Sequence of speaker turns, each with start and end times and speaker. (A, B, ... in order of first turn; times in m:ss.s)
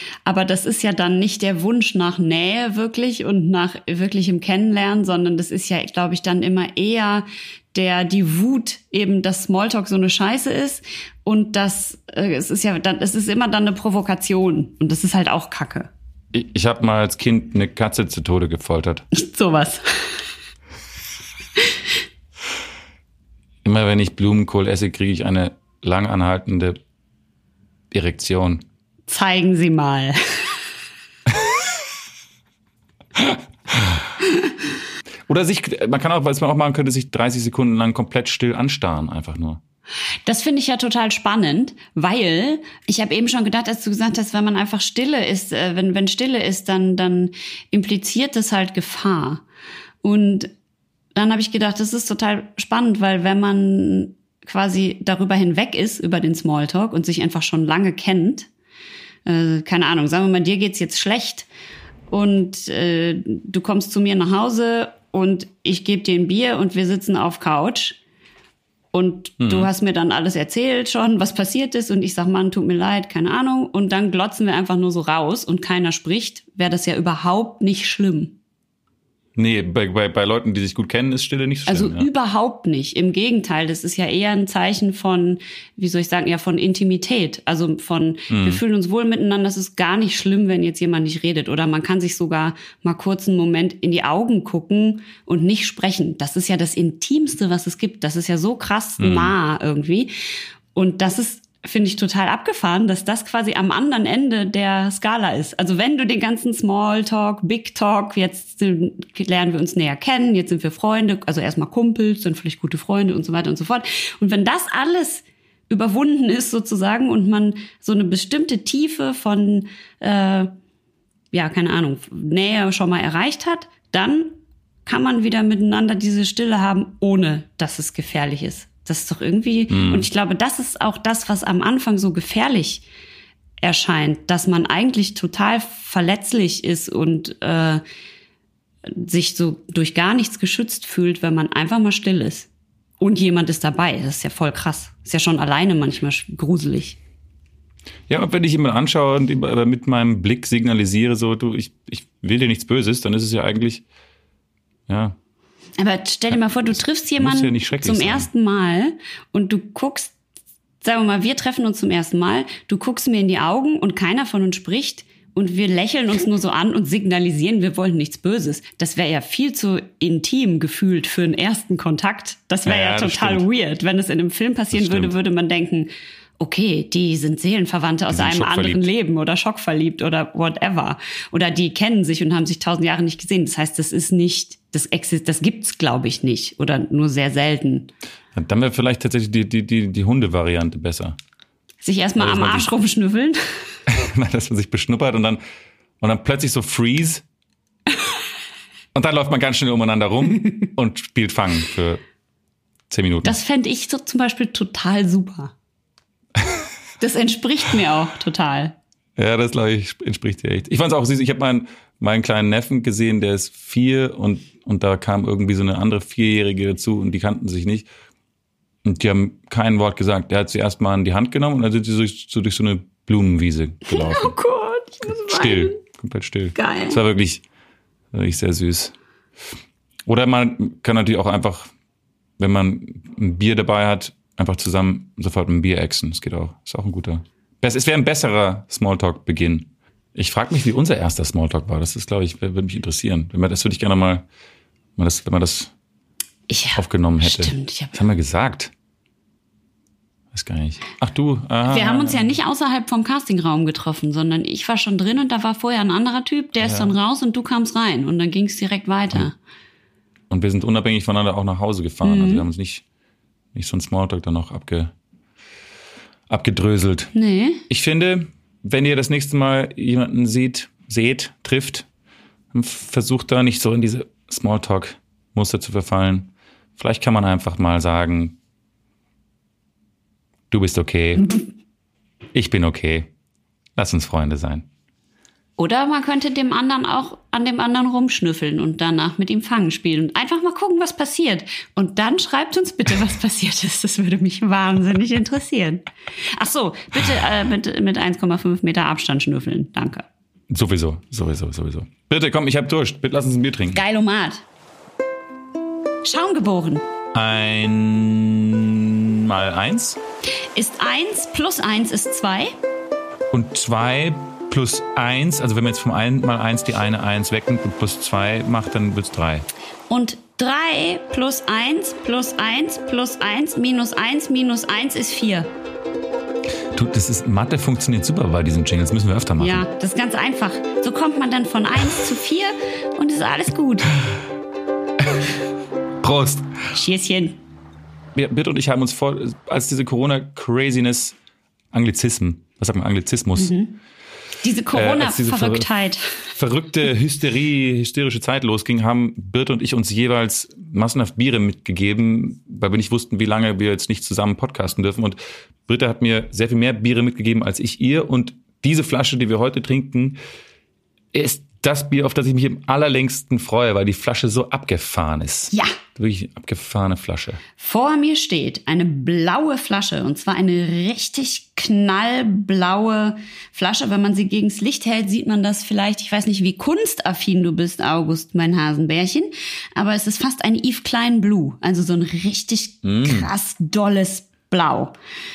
0:00.2-0:15.9 A
0:16.3-0:19.0 B
0:19.1-0:19.8 A
0:23.6-0:26.8 B
0:27.9-0:28.6 B
0:29.1-0:30.5 A
0:33.2-0:34.0 B
0:35.3-0:39.6 B
0:40.2-0:49.4 A
0:50.0-0:50.5 A
0:51.1-0:58.5 A
0:59.2-1:01.5 A
1:02.1-1:08.0 A
1:08.9-1:18.4 A
1:09.4-1:09.7 B
1:19.4-1:22.1 B
1:21.7-1:40.1 A
1:28.3-1:28.6 B
1:39.0-1:39.3 B
1:40.7-2:00.5 A
2:01.3-2:04.3 A
2:04.8-2:12.8 A
2:09.7-2:10.1 B
2:13.6-2:17.8 A
2:18.8-2:22.5 A
2:23.0-2:27.0 A
2:28.1-2:33.8 B
2:34.9-2:35.2 B
2:35.8-2:40.1 A
2:37.2-2:38.3 B
2:40.8-3:07.9 A
2:52.6-2:53.4 B
2:54.7-2:55.1 B
2:58.1-2:58.8 B
3:08.3-3:11.2 B
3:11.8-3:13.4 A
3:12.2-3:12.7 B
3:13.9-3:15.4 B
3:16.0-3:17.2 B
3:18.9-3:22.0 B
3:22.9-3:23.4 B
3:23.2-3:25.5 A
3:26.4-3:26.7 B
3:27.0-3:28.8 A
3:29.2-3:37.9 B
3:38.8-3:44.3 B
3:43.9-3:45.8 A
3:45.1-3:47.4 B
3:46.5-3:47.0 A
3:48.1-3:48.9 B
3:50.0-3:51.7 B
3:52.4-4:04.2 B
4:05.0-4:05.7 B
4:06.5-4:08.0 A
4:06.8-4:08.7 B
4:10.3-4:12.4 B
4:11.6-4:19.3 A
4:16.6-4:16.9 B
4:20.3-4:22.8 B
4:22.0-4:22.4 A
4:23.5-4:24.9 B
4:26.3-4:27.1 B
4:27.1-4:27.6 A
4:27.7-4:31.9 B
4:32.5-4:38.4 B
4:40.5-4:41.4 B
4:42.3-4:43.1 B
4:43.8-4:44.7 B
4:45.6-5:00.0 A
5:00.5-5:03.8 B
5:03.7-5:04.4 A
5:06.0-5:06.8 A
5:07.1-5:10.0 B
5:10.5-5:12.5 A
5:13.3-5:19.4 B
5:19.9-5:25.5 A
5:26.7-5:29.6 B
5:29.4-5:34.0 A
5:36.0-5:36.7 B
5:36.7-5:37.4 A
5:38.1-5:41.1 B
5:41.7-5:43.5 B
5:43.4-5:43.8 A
5:44.4-5:46.3 A
5:44.7-5:45.7 B
5:46.3-6:00.2 B
6:01.1-6:07.4 B
6:07.6-6:24.9 A
6:22.8-6:23.3 B